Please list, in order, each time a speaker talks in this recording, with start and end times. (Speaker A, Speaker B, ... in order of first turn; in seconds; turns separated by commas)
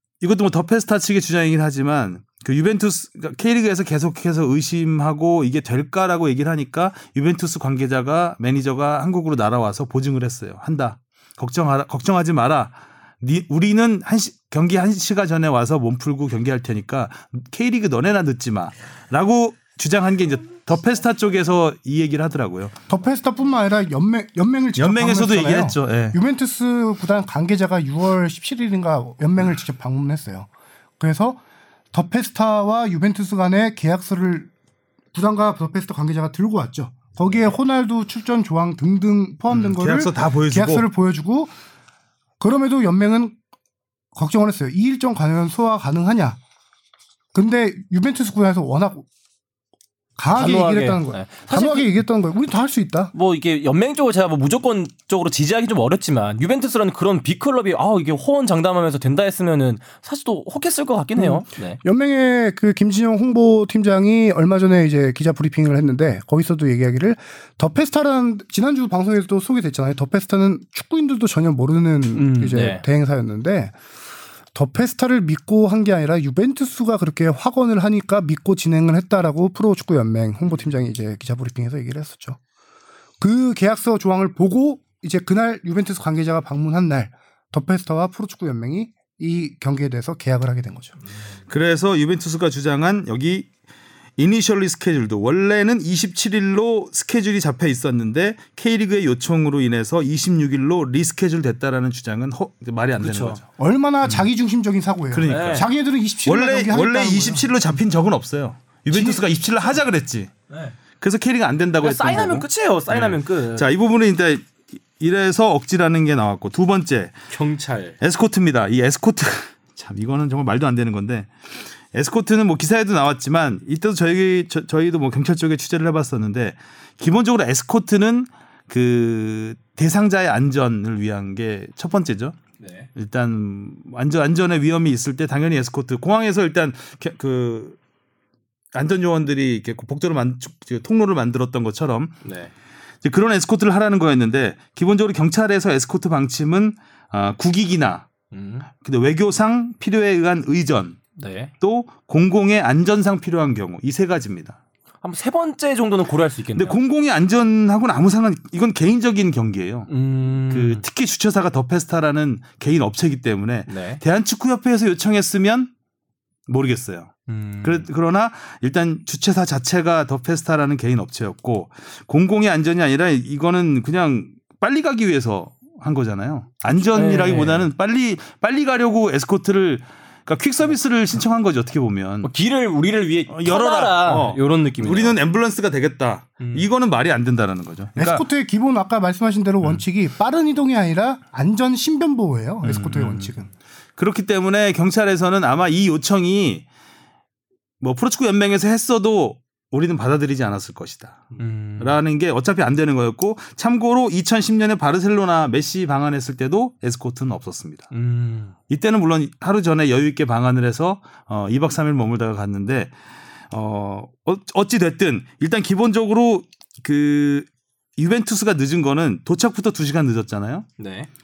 Speaker A: 0.2-22.8, Speaker B: 22.9-30.5, Speaker A: 24.8-26.2, Speaker B: 31.0-31.4, Speaker B: 31.9-34.5, Speaker B: 35.1-41.5, Speaker A: 39.5-40.9, Speaker B: 42.4-43.4, Speaker B: 44.1-46.4, Speaker B: 47.3-49.1, Speaker B: 50.2-53.1, Speaker C: 50.3-51.9, Speaker C: 53.1-61.8, Speaker B: 61.1-73.7, Speaker C: 72.1-72.8, Speaker B: 74.5-82.4, Speaker B: 83.2-91.0, Speaker A: 91.5-93.5, Speaker A: 94.2-103.4, Speaker C: 103.0-103.4, Speaker B: 103.6-107.5, Speaker A: 105.1-105.7, Speaker C: 105.2-105.7, Speaker A: 106.2-110.3, Speaker B: 108.9-109.2, Speaker C: 110.5-110.7, Speaker A: 111.0-117.2, Speaker C: 111.8-113.7, Speaker C: 117.3-118.0, Speaker A: 118.0-121.3, Speaker A: 121.9-132.3, Speaker C: 132.6-132.9, Speaker A: 132.9-137.8, Speaker A: 138.7-142.2, Speaker C: 142.2-142.5, Speaker A: 143.0-148.1, Speaker C: 148.3-148.7, Speaker A: 148.8-151.0, Speaker C: 151.2-151.5, Speaker A: 151.6-154.6, Speaker C: 155.0-156.8, Speaker A: 156.5-165.7, Speaker C: 159.9-160.8, Speaker C: 163.7-164.0, Speaker A: 166.5-182.3, Speaker C: 167.3-167.8, Speaker C: 176.8-177.7, Speaker C: 182.2-185.2, Speaker A: 183.3-188.2, Speaker C: 186.4-186.7, Speaker B: 188.0-193.5, Speaker A: 192.6-193.3, Speaker A: 194.0-196.6, Speaker A: 197.8-207.9, Speaker C: 201.4-202.0, Speaker C: 207.9-208.5, Speaker A: 208.7-212.9, Speaker A: 213.5-220.7, Speaker C: 220.8-221.1